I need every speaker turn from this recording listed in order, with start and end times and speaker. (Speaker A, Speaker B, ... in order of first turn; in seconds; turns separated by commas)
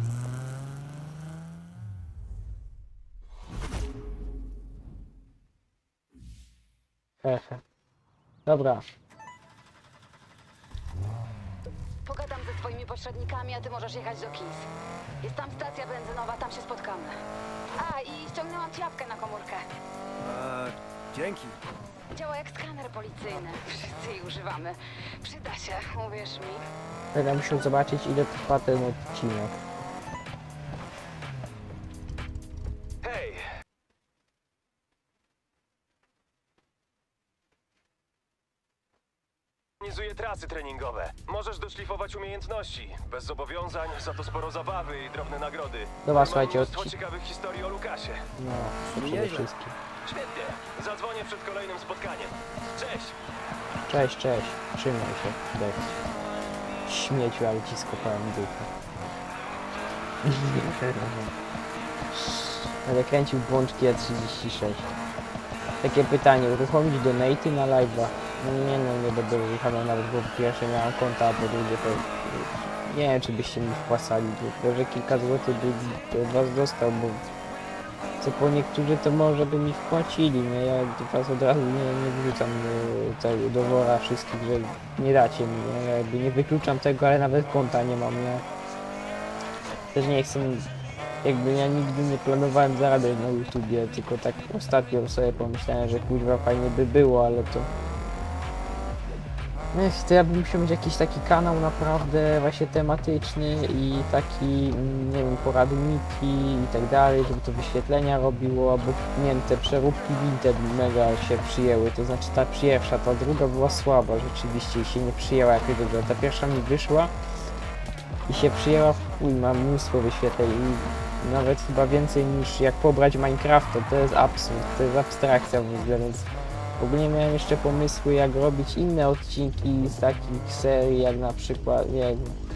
Speaker A: 7.2-7.6, Speaker A: 8.4-8.8, Speaker B: 12.0-14.7, Speaker B: 15.2-17.1, Speaker B: 17.8-19.6, Speaker C: 20.2-21.6, Speaker B: 22.1-26.6, Speaker A: 27.1-29.6, Speaker D: 33.0-33.4, Speaker D: 39.8-48.3, Speaker A: 46.0-46.9, Speaker A: 48.4-49.7, Speaker C: 48.9-49.5, Speaker D: 50.0-53.1, Speaker A: 53.9-56.0, Speaker A: 56.8-58.7, Speaker A: 60.2-61.3, Speaker A: 62.1-64.9, Speaker A: 65.8-77.3, Speaker A: 78.2-88.4, Speaker A: 89.9-90.7, Speaker A: 91.2-97.7, Speaker A: 99.7-117.1, Speaker A: 118.3-132.4